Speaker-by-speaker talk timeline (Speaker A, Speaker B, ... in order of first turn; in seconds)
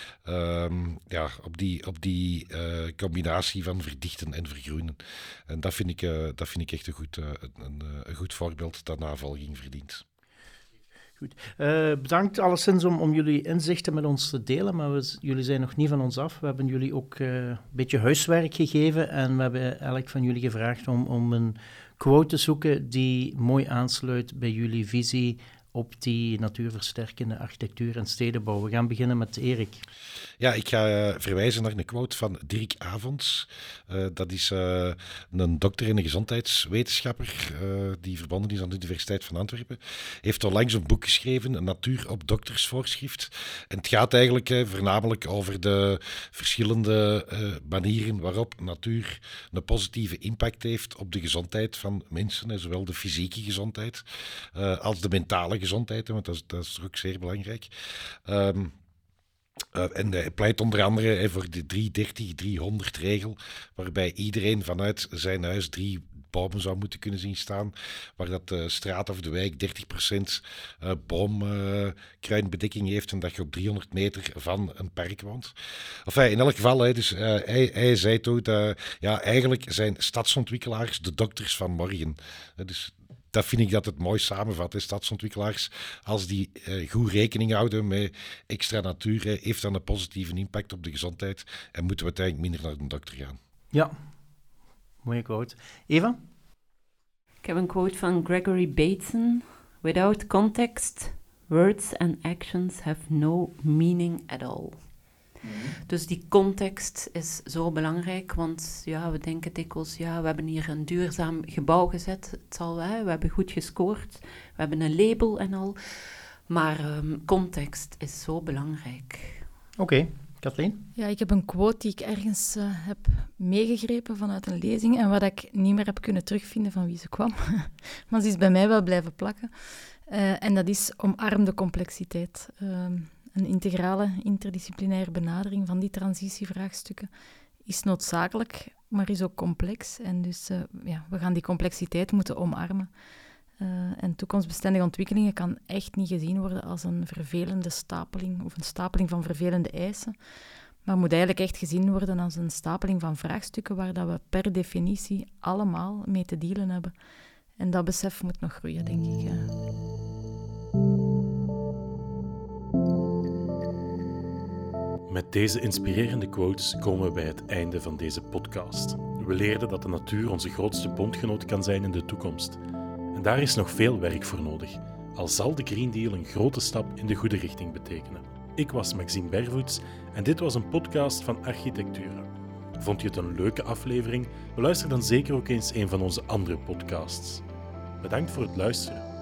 Speaker A: 0.2-5.0, 5.5-10.0, 30.4-57.7, 58.2-58.7, 59.7-75.5, 76.0-93.4
Speaker B: 11.2-29.8, 95.0-96.2, 119.8-120.8
Speaker C: 97.4-104.8, 105.6-115.8, 116.5-119.4
Speaker D: 121.0-129.5, 130.1-137.1, 137.6-142.9, 143.6-150.1, 150.8-156.9, 157.6-159.5
Speaker E: 165.1-172.6, 173.1-187.4, 188.0-189.1